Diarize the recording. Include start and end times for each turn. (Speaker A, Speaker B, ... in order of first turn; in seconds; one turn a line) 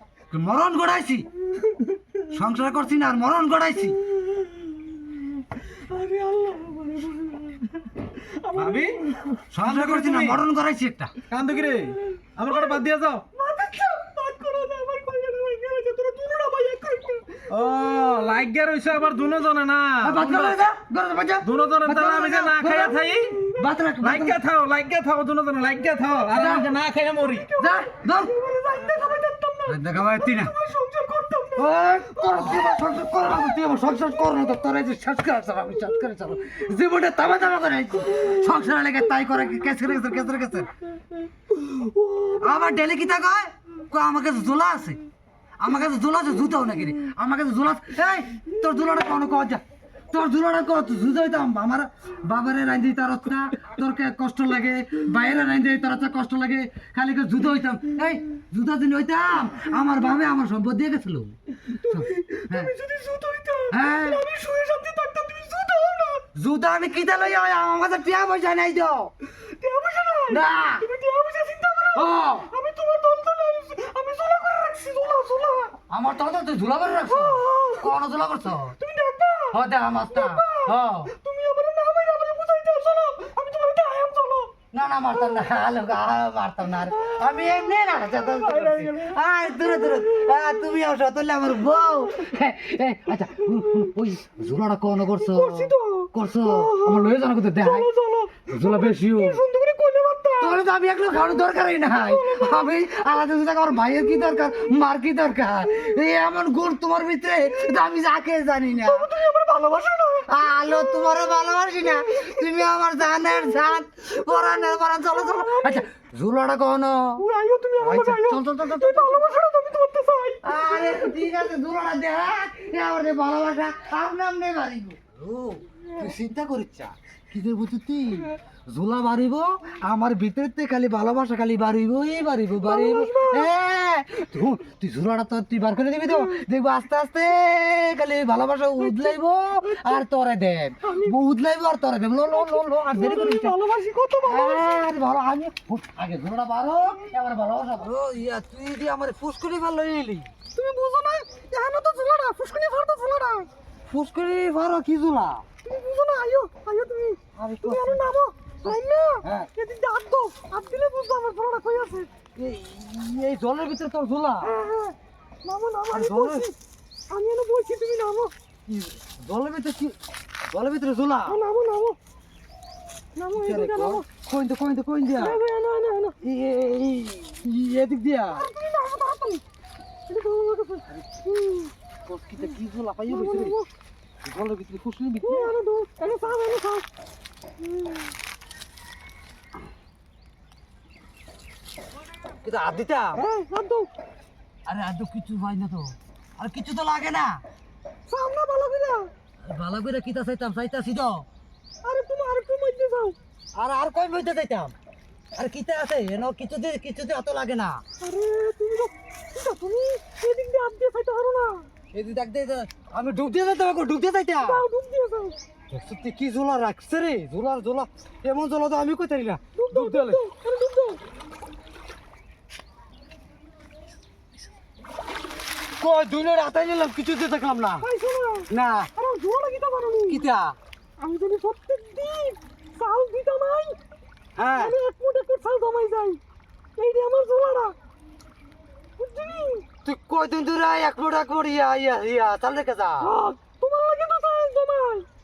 Speaker A: 0.3-1.3
Speaker A: 2.3-4.0
Speaker B: 4.3-4.9
Speaker B: 5.8-8.9
Speaker C: 8.5-10.4
Speaker A: 9.5-11.1
Speaker C: 11.3-13.2
Speaker B: 12.5-12.8
Speaker B: 13.3-17.5
Speaker C: 17.5-20.6
Speaker A: 20.0-24.4
Speaker C: 21.4-27.5
Speaker A: 26.3-26.7
Speaker A: 27.6-28.4
Speaker B: 27.6-32.9
Speaker A: 29.6-30.5
Speaker A: 31.5-40.7
Speaker B: 41.5-42.5
Speaker A: 42.4-45.0
Speaker A: 45.6-62.7
Speaker B: 61.8-66.2
Speaker A: 63.7-64.3
Speaker A: 66.3-69.1
Speaker B: 69.4-75.8
Speaker A: 70.3-70.9
Speaker A: 71.9-72.5
Speaker A: 75.9-78.8
Speaker B: 77.0-77.9
Speaker B: 78.8-84.5
Speaker A: 79.5-81.1
Speaker A: 84.7-97.9
Speaker B: 86.9-87.5
Speaker B: 88.3-90.5
Speaker B: 95.3-100.6
Speaker A: 98.5-99.4
Speaker A: 100.4-109.1
Speaker B: 101.9-102.7
Speaker B: 108.8-111.2
Speaker A: 110.3-117.2
Speaker B: 111.8-112.4
Speaker B: 115.0-115.8
Speaker B: 117.2-121.2
Speaker A: 117.8-119.4
Speaker A: 120.4-143.6
Speaker B: 132.6-133.5
Speaker B: 138.8-139.2
Speaker B: 139.7-140.0
Speaker B: 140.8-141.1
Speaker B: 142.3-144.9
Speaker A: 144.2-150.3
Speaker B: 150.5-153.5
Speaker A: 153.9-155.4
Speaker B: 155.6-162.1
Speaker A: 157.3-158.1
Speaker A: 158.6-159.5
Speaker A: 162.3-164.6
Speaker B: 164.4-166.5
Speaker A: 165.9-166.5
Speaker B: 167.1-168.3
Speaker A: 168.7-171.4
Speaker B: 171.3-172.0
Speaker B: 173.2-174.1
Speaker A: 173.3-175.4
Speaker B: 175.2-176.2
Speaker A: 176.2-178.5
Speaker B: 178.3-179.4
Speaker B: 180.1-180.9
Speaker A: 180.9-181.2
Speaker B: 181.4-181.7
Speaker A: 182.1-183.6
Speaker B: 183.1-183.7
Speaker A: 184.2-185.5
Speaker B: 185.2-186.8
Speaker B: 187.7-188.0
Speaker A: 192.4-193.2
Speaker B: 193.1-193.9
Speaker A: 194.7-197.4
Speaker B: 198.1-199.1
Speaker A: 199.4-201.3
Speaker B: 201.8-203.2
Speaker A: 203.5-204.7
Speaker A: 205.3-207.8
Speaker B: 208.0-211.7
Speaker A: 211.9-214.7
Speaker B: 214.4-215.3
Speaker A: 215.7-220.2
Speaker B: 219.6-221.0
Speaker A: 225.8-227.9
Speaker B: 227.8-230.2
Speaker A: 228.5-228.9
Speaker A: 230.1-230.6
Speaker B: 231.0-233.8
Speaker A: 234.4-234.8
Speaker B: 234.5-236.2
Speaker B: 236.8-237.7
Speaker B: 239.0-239.7
Speaker A: 239.8-243.2
Speaker B: 243.0-245.1